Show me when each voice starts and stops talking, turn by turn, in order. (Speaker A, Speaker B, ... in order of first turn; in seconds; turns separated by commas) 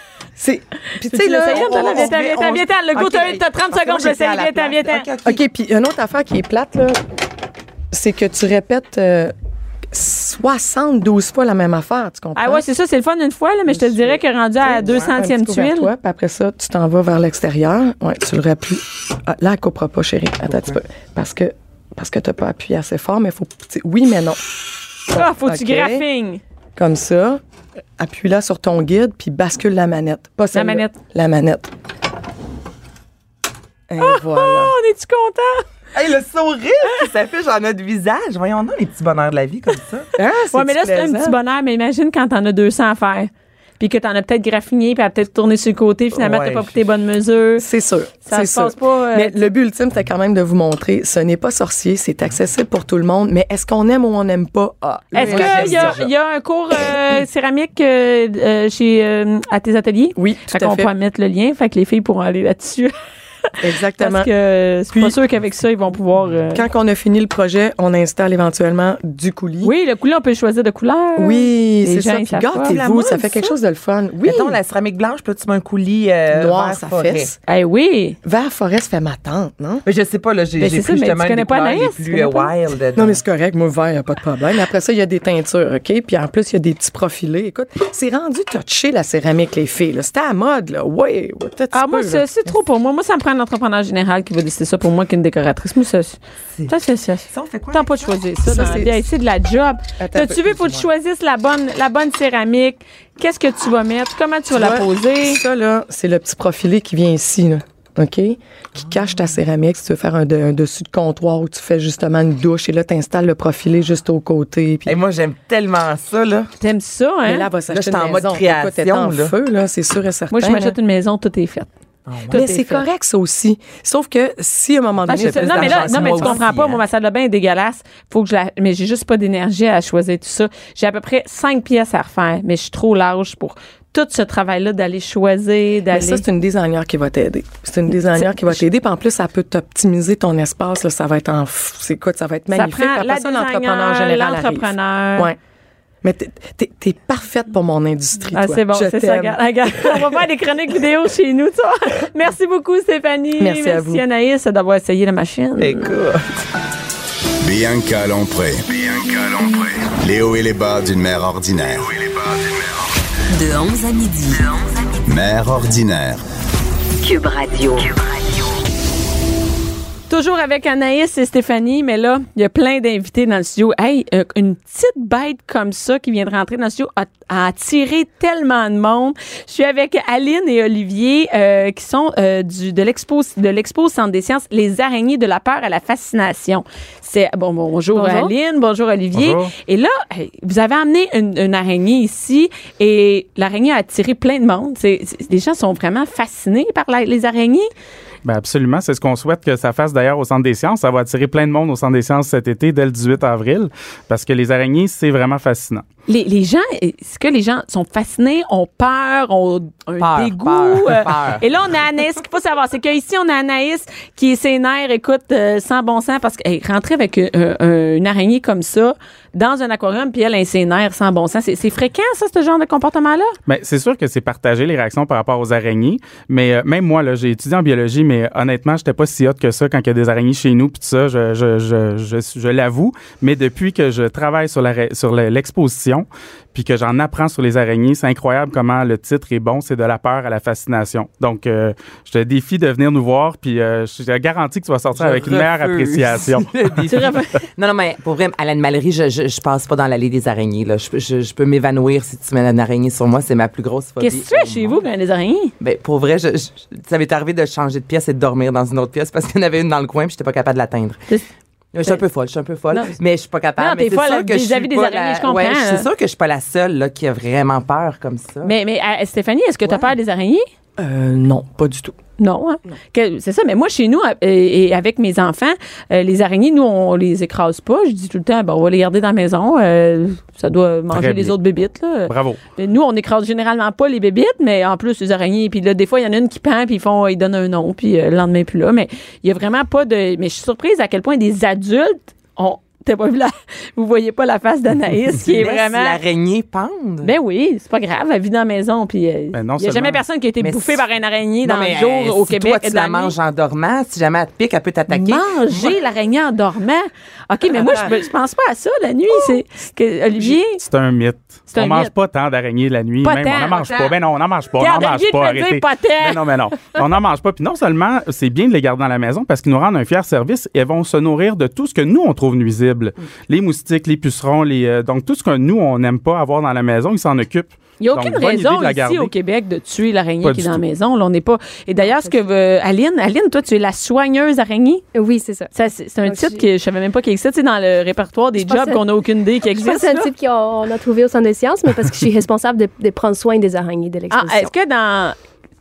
Speaker A: 0.4-2.6, Speaker B: 1.0-5.1, Speaker C: 1.5-5.4, Speaker A: 5.2-7.0, Speaker A: 7.9-9.3, Speaker A: 9.9-12.7, Speaker B: 12.4-15.9, Speaker A: 13.8-14.2, Speaker C: 14.8-15.1, Speaker A: 15.1-24.4, Speaker A: 25.1-26.1, Speaker B: 25.1-26.4, Speaker A: 26.8-27.4, Speaker A: 28.0-31.7, Speaker B: 30.5-30.9, Speaker A: 33.9-34.7, Speaker B: 34.0-35.6, Speaker C: 35.9-40.1, Speaker A: 40.2-41.4, Speaker B: 40.5-47.7, Speaker C: 46.1-46.8, Speaker A: 47.6-56.0, Speaker B: 48.3-49.4, Speaker C: 55.1-56.1, Speaker B: 55.1-62.9, Speaker A: 60.2-60.9, Speaker A: 63.6-64.3, Speaker B: 64.0-66.6, Speaker A: 64.9-65.2, Speaker A: 66.5-69.7, Speaker B: 69.6-72.8, Speaker A: 71.2-74.6, Speaker C: 72.6-73.5, Speaker C: 74.2-77.3, Speaker A: 76.3-77.4, Speaker B: 77.5-78.2, Speaker A: 78.2-79.8, Speaker C: 79.8-83.2, Speaker B: 80.6-82.5, Speaker A: 83.0-92.2, Speaker B: 91.7-105.4, Speaker C: 97.3-98.6, Speaker A: 98.5-99.0, Speaker A: 100.0-100.6, Speaker A: 104.5-115.0, Speaker C: 114.9-116.5, Speaker B: 116.6-117.5, Speaker A: 117.3-120.8, Speaker C: 117.7-119.3, Speaker B: 120.3-121.7, Speaker C: 122.1-122.4, Speaker B: 122.3-122.8, Speaker A: 122.3-126.4, Speaker C: 125.1-126.8, Speaker B: 125.1-136.2, Speaker A: 135.9-145.4, Speaker B: 142.5-145.3, Speaker A: 146.0-150.3, Speaker B: 148.3-155.9, Speaker A: 153.4-154.0, Speaker C: 155.6-156.3, Speaker D: 157.4-162.8, Speaker E: 163.3-164.6, Speaker D: 165.1-166.2, Speaker E: 167.0-168.5, Speaker B: 170.1-197.7, Speaker F: 187.9-188.3, Speaker G: 189.1-189.5, Speaker G: 198.2-205.8, Speaker B: 206.1-223.3, Speaker C: 210.0-211.4, Speaker G: 223.5-247.0, Speaker C: 244.9-254.8, Speaker B: 246.9-247.4, Speaker B: 254.0-255.5, Speaker C: 255.6-261.1, Speaker C: 261.7-268.5, Speaker B: 263.6-265.9, Speaker B: 268.4-270.5, Speaker A: 270.8-272.0, Speaker B: 272.2-296.0, Speaker G: 280.9-281.4, Speaker G: 282.1-282.4, Speaker C: 295.2-297.1, Speaker B: 297.0-303.1, Speaker G: 299.3-300.0, Speaker C: 300.4-300.8, Speaker C: 301.4-305.8, Speaker B: 304.9-310.6, Speaker C: 307.5-307.9, Speaker G: 310.6-329.1, Speaker B: 311.5-311.9, Speaker B: 313.0-313.9, Speaker B: 314.6-316.8, Speaker B: 327.8-334.9, Speaker G: 330.2-330.6, Speaker F: 331.8-332.2, Speaker F: 334.9-336.4, Speaker B: 335.5-340.1, Speaker F: 338.4-338.8, Speaker F: 339.5-344.5, Speaker B: 344.1-345.2